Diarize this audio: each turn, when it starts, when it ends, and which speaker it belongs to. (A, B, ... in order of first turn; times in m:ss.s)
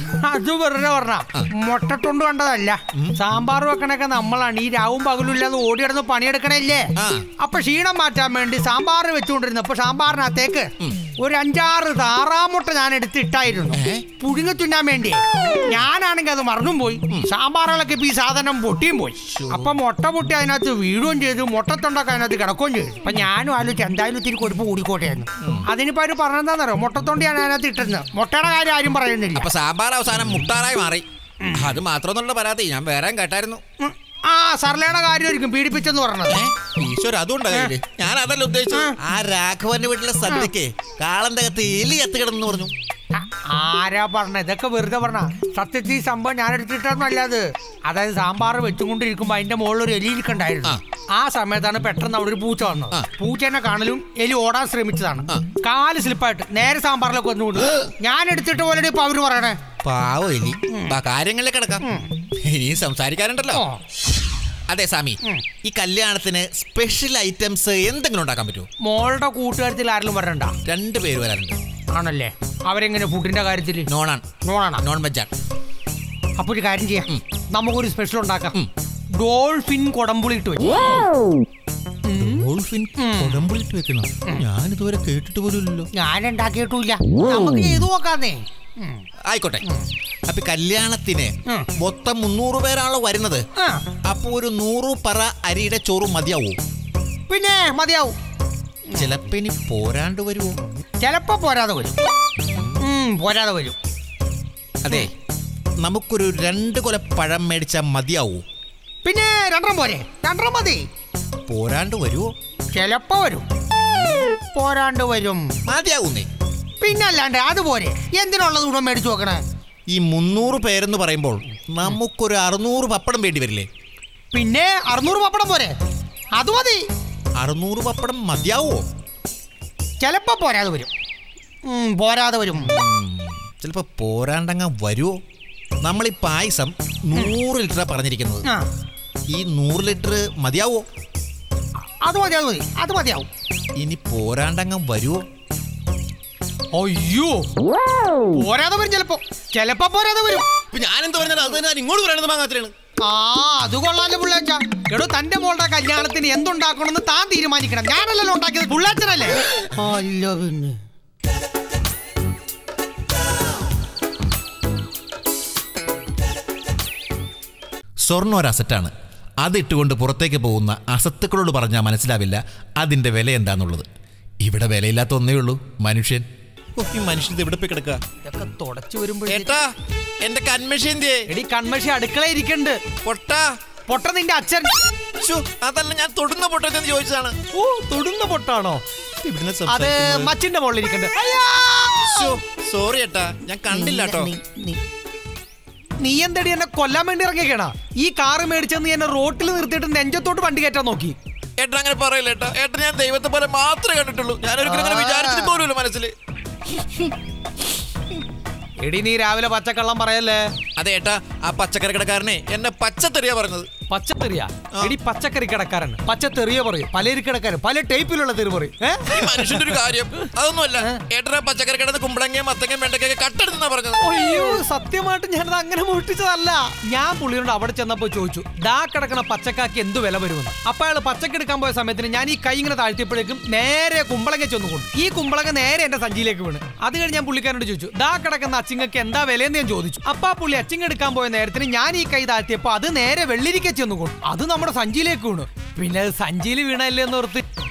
0:00.2-0:06.8 A
0:07.0-0:07.3 B
0:07.4-0:15.2 A
0:13.7-0:14.1 B
0:15.7-0:19.2 A
0:19.3-0:19.7 B
0:19.8-0:29.2 A
0:25.4-0:25.7 B
0:29.3-0:33.6 B
0:34.3-0:36.2 A
0:36.2-0:42.7 B
0:43.2-0:50.6 A
0:51.2-0:59.6 A
0:59.8-1:01.8 B
1:02.4-1:03.6 B
1:04.7-1:08.7 B
1:08.8-1:10.5 A
1:10.6-1:11.6 B
1:11.9-1:13.8 A
1:13.8-1:14.2 B
1:14.5-1:14.8 A
1:14.8-1:15.3 B
1:16.4-1:18.5 A
1:19.2-1:20.9 A
1:22.1-1:25.9 B
1:23.0-1:23.3 A
1:26.0-1:29.0 A
1:29.3-1:29.6 B
1:30.3-1:33.4 B
1:34.1-1:36.6 B
1:37.3-1:38.2 A
1:38.9-1:40.6 B
1:41.0-1:41.9 A
1:42.5-1:42.8 B
1:42.9-1:43.8 A
1:44.8-1:45.1 B
1:45.8-1:48.4 B
1:49.0-1:50.8 A
1:51.5-1:52.3 B
1:52.8-1:53.4 A
1:54.5-1:55.4 A
1:55.6-1:56.3 B
1:56.8-1:59.4 A
1:59.9-2:03.7 B
2:04.3-2:05.8 A
2:06.4-2:06.8 A
2:07.4-2:08.8 B
2:10.0-2:10.9 A
2:11.7-2:12.6 A
2:12.5-2:15.1 B
2:15.8-2:18.4 B
2:19.3-2:20.8 B
2:22.0-2:23.3 A
2:23.8-2:25.2 B
2:26.7-2:27.5 A
2:28.3-2:30.4 A
2:30.7-2:32.7 B
2:33.0-2:40.4 A
2:48.0-2:53.9 B
2:54.4-2:58.0 B
2:58.2-2:59.6 A
2:59.2-3:01.2 B
3:01.3-3:02.8 A
3:03.0-3:03.5 B
3:03.9-3:04.7 A
3:05.2-3:07.3 B
3:07.5-3:08.8 A
3:09.2-3:10.3 B
3:09.6-3:12.1 A
3:12.0-3:14.3 B
3:16.0-3:21.2 A
3:21.6-3:26.1 B
3:28.8-3:30.4 A
3:30.8-3:33.7 B
3:33.9-3:39.8 A
3:39.0-3:44.0 B
3:44.0-4:07.4 A